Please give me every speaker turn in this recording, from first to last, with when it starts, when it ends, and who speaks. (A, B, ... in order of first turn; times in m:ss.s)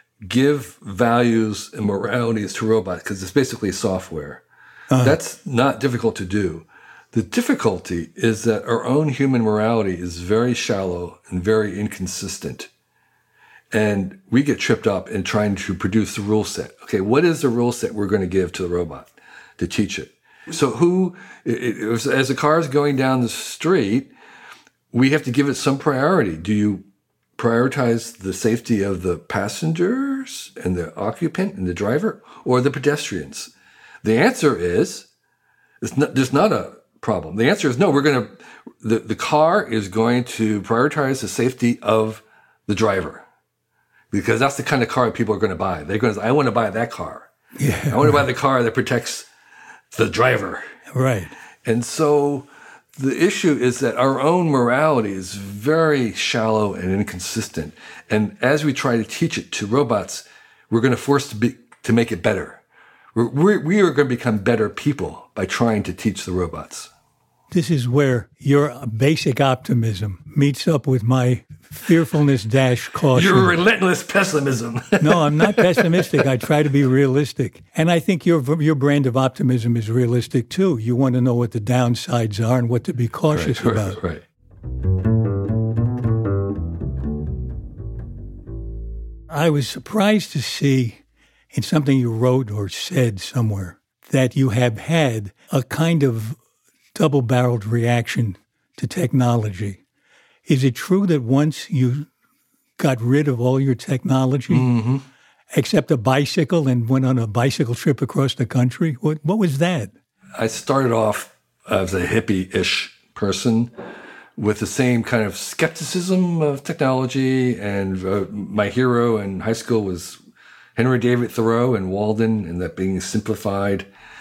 0:00.2-0:04.4 A
0:04.9-0:05.2 B
0:05.0-0:12.7 A
0:13.7-0:24.1 A
0:24.9-0:26.9 A
0:27.4-0:35.1 A
0:35.8-0:43.2 A
0:44.1-0:47.3 A
0:47.6-0:48.2 B
0:47.9-0:49.3 A
0:49.9-0:50.6 A
0:50.9-0:51.3 B
0:51.6-1:02.6 A
1:03.2-1:06.9 A
1:07.5-1:13.6 B
1:13.1-1:16.3 A
1:15.0-1:24.0 B
1:23.3-1:24.2 A
1:29.3-1:31.0 B
1:31.5-1:36.4 B
1:37.0-1:39.8 B
1:40.5-1:42.1 B
1:42.8-1:44.7 B
1:44.5-1:45.0 A
1:45.5-1:49.9 B
1:50.4-1:53.7 A
1:54.4-2:00.2 A
2:00.8-2:03.9 A